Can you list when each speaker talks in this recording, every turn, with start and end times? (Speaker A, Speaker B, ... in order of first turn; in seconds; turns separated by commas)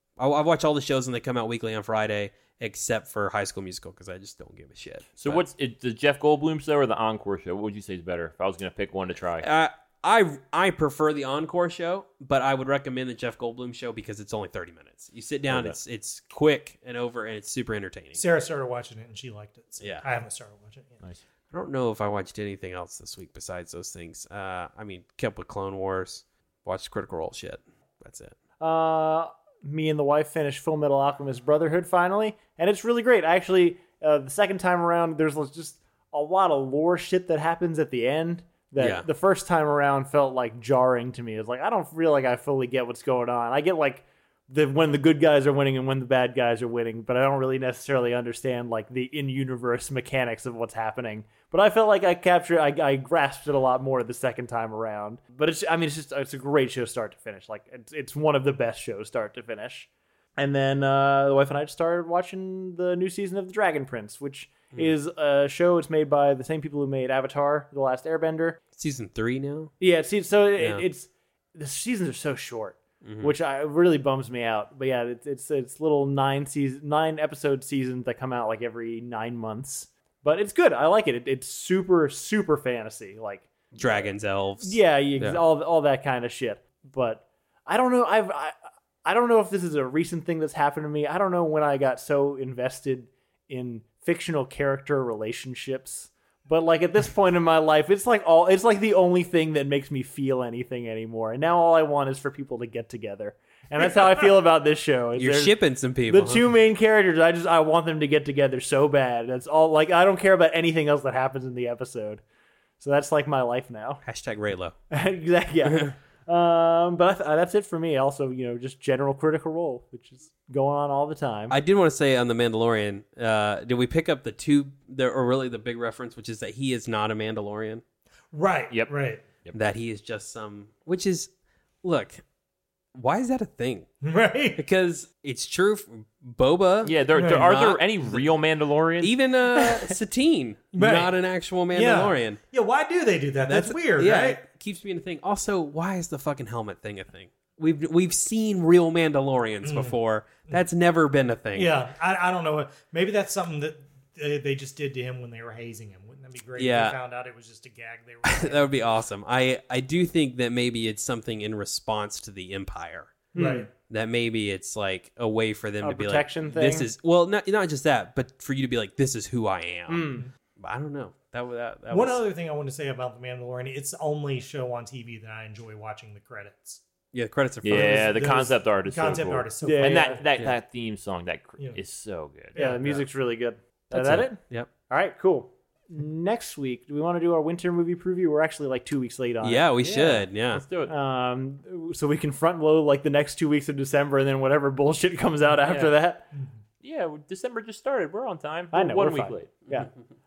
Speaker A: 0.2-5.4, Speaker B: 5.2-9.5, Speaker A: 9.4-18.2, Speaker B: 15.5-15.8, Speaker C: 18.2-21.0, Speaker A: 19.8-20.1, Speaker A: 21.5-28.4, Speaker D: 28.6-68.6, Speaker A: 38.8-39.1, Speaker A: 68.8-69.7, Speaker D: 69.8-84.1, Speaker A: 70.6-70.8, Speaker A: 73.0-73.3, Speaker A: 83.8-85.4, Speaker D: 84.6-112.2, Speaker A: 105.2-106.5, Speaker D: 112.8-114.0, Speaker A: 114.1-114.8, Speaker D: 114.9-121.6, Speaker A: 115.7-116.0, Speaker A: 121.5-127.8, Speaker C: 128.3-129.2, Speaker A: 129.5-131.3, Speaker A: 131.8-132.2, Speaker A: 133.0-133.9, Speaker C: 134.0-134.6, Speaker A: 134.6-138.2, Speaker B: 136.8-139.2, Speaker C: 137.1-137.5, Speaker A: 139.0-142.4, Speaker C: 140.7-141.1, Speaker C: 141.7-144.4, Speaker A: 143.5-151.7, Speaker C: 149.6-149.9, Speaker C: 151.6-158.9, Speaker A: 156.6-157.0, Speaker A: 158.2-163.2, Speaker D: 163.3-163.7, Speaker C: 163.3-163.7, Speaker A: 163.9-172.2, Speaker D: 165.8-166.9, Speaker D: 169.9-170.3, Speaker C: 171.9-176.8, Speaker A: 177.1-178.1, Speaker B: 177.6-182.5, Speaker C: 177.9-180.2, Speaker D: 179.6-180.2, Speaker C: 182.5-182.9, Speaker D: 182.6-190.0, Speaker A: 183.9-184.7, Speaker A: 189.4-190.6, Speaker B: 189.8-190.9, Speaker D: 190.9-196.3, Speaker B: 195.7-195.9, Speaker B: 196.8-199.5, Speaker D: 198.7-199.9